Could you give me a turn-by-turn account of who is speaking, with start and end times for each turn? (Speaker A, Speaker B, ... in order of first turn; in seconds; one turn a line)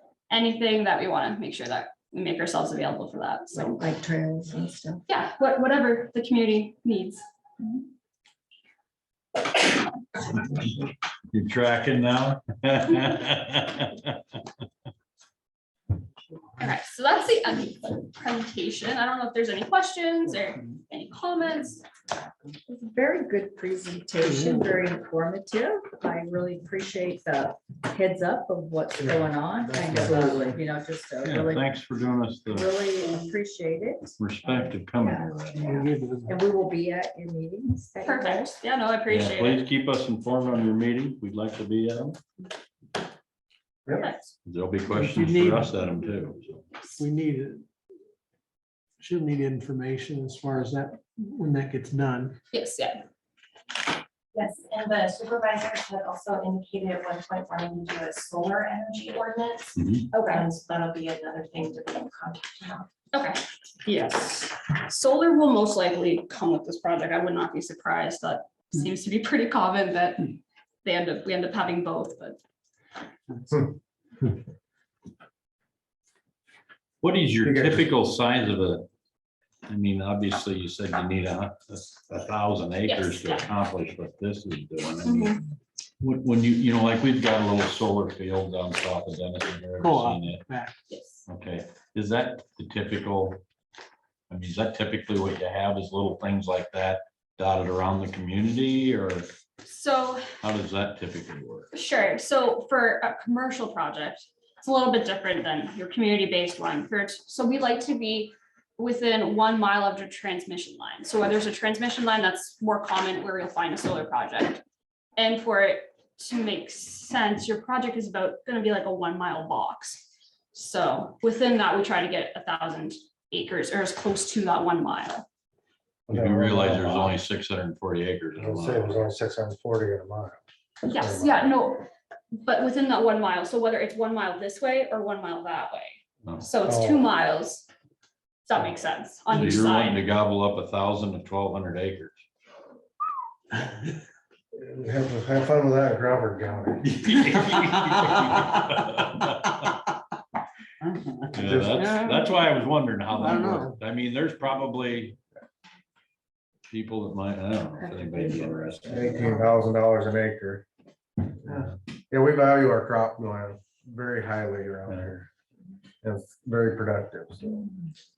Speaker A: 0.3-3.9
Speaker B: 3.8-5.0
Speaker A: 5.1-7.2
Speaker C: 11.3-14.2
Speaker A: 16.6-21.9
Speaker B: 22.7-31.7
Speaker D: 24.2-24.7
Speaker E: 29.8-30.2
Speaker C: 31.2-32.8
Speaker B: 32.5-38.5
Speaker C: 34.2-35.8
Speaker D: 35.6-36.4
Speaker A: 38.0-39.7
Speaker C: 39.1-42.2
Speaker E: 43.9-44.1
Speaker A: 43.9-44.3
Speaker C: 44.5-46.7
Speaker D: 44.9-45.7
Speaker D: 47.0-47.6
Speaker D: 49.0-52.4
Speaker A: 52.5-53.0
Speaker F: 54.3-59.8
Speaker C: 59.8-60.1
Speaker A: 60.1-60.5
Speaker F: 60.3-62.9
Speaker A: 63.1-72.4
Speaker C: 77.0-78.9
Speaker E: 77.4-77.9
Speaker C: 79.7-85.4
Speaker A: 82.9-83.5
Speaker A: 85.0-85.4
Speaker C: 86.0-90.5
Speaker D: 89.8-90.8
Speaker A: 90.9-91.2
Speaker C: 91.3-93.4
Speaker C: 94.3-99.3
Speaker A: 99.6-100.3
Speaker C: 100.4-101.7
Speaker A: 101.7-114.6
Speaker A: 115.2-125.3
Speaker E: 126.1-127.2
Speaker C: 126.1-129.1
Speaker E: 128.4-130.4
Speaker A: 130.9-137.7
Speaker E: 131.0-131.5
Speaker E: 136.7-137.1
Speaker A: 138.4-140.0
Speaker C: 139.3-142.2
Speaker E: 144.6-147.0
Speaker C: 146.8-149.8
Speaker C: 151.3-155.2
Speaker E: 151.4-151.8
Speaker D: 153.3-153.6
Speaker C: 156.7-159.1
Speaker B: 157.8-158.8
Speaker E: 158.9-160.7
Speaker E: 161.4-165.3
Speaker C: 164.9-165.2
Speaker E: 166.0-167.6